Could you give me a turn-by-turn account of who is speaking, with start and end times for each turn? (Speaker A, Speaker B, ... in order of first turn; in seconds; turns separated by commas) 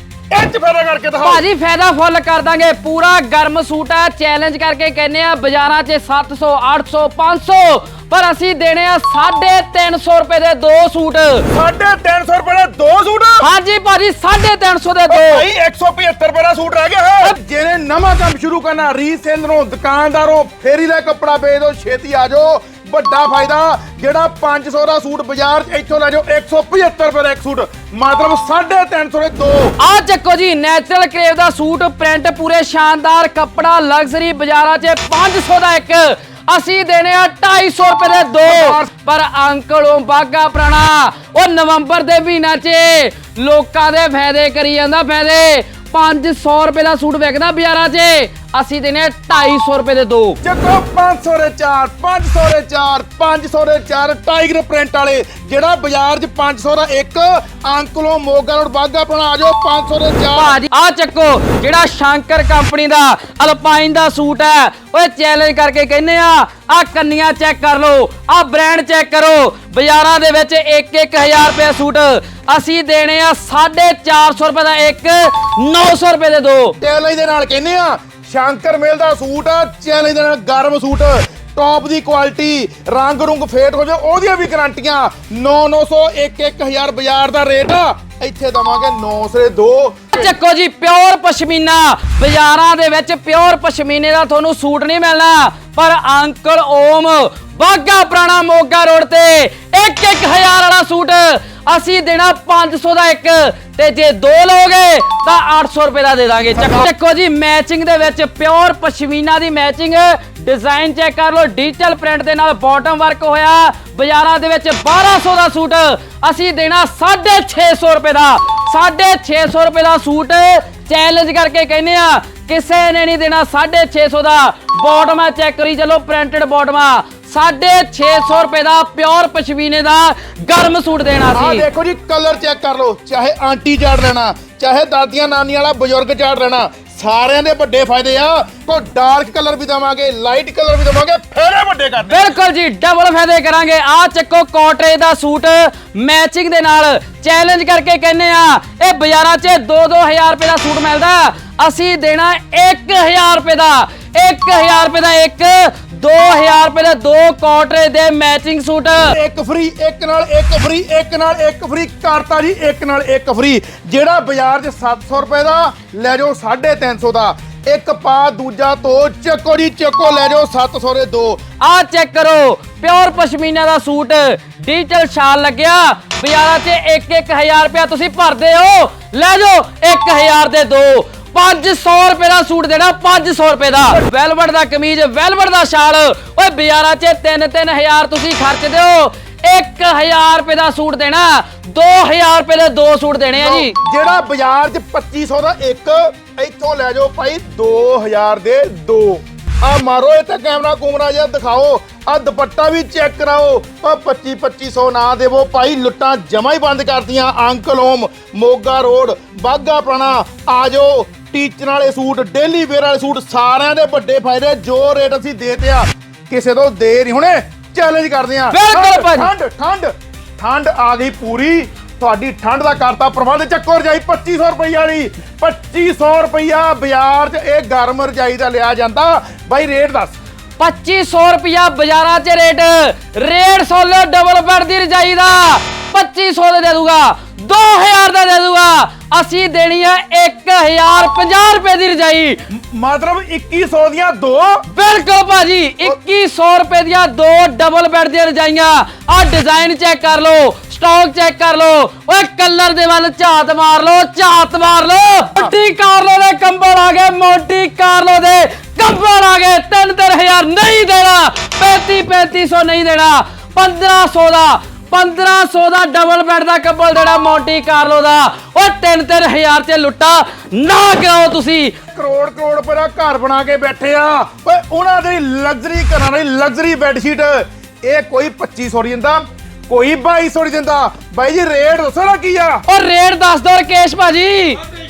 Speaker A: 0.3-1.4, Speaker B: 1.2-11.4, Speaker A: 11.5-13.4, Speaker B: 13.4-15.4, Speaker A: 15.1-29.8, Speaker B: 29.8-50.4, Speaker A: 38.4-38.9, Speaker A: 50.4-60.6, Speaker B: 60.4-76.8, Speaker A: 76.8-90.3, Speaker B: 90.1-131.7, Speaker A: 106.5-106.9, Speaker A: 131.3-142.3, Speaker B: 142.1-159.2, Speaker A: 159.1-171.4, Speaker B: 171.6-193.8, Speaker A: 193.3-230.2, Speaker B: 218.5-219.3, Speaker B: 230.6-242.4, Speaker A: 242.5-244.6, Speaker B: 244.7-271.7, Speaker A: 271.9-282.6, Speaker B: 282.6-284.6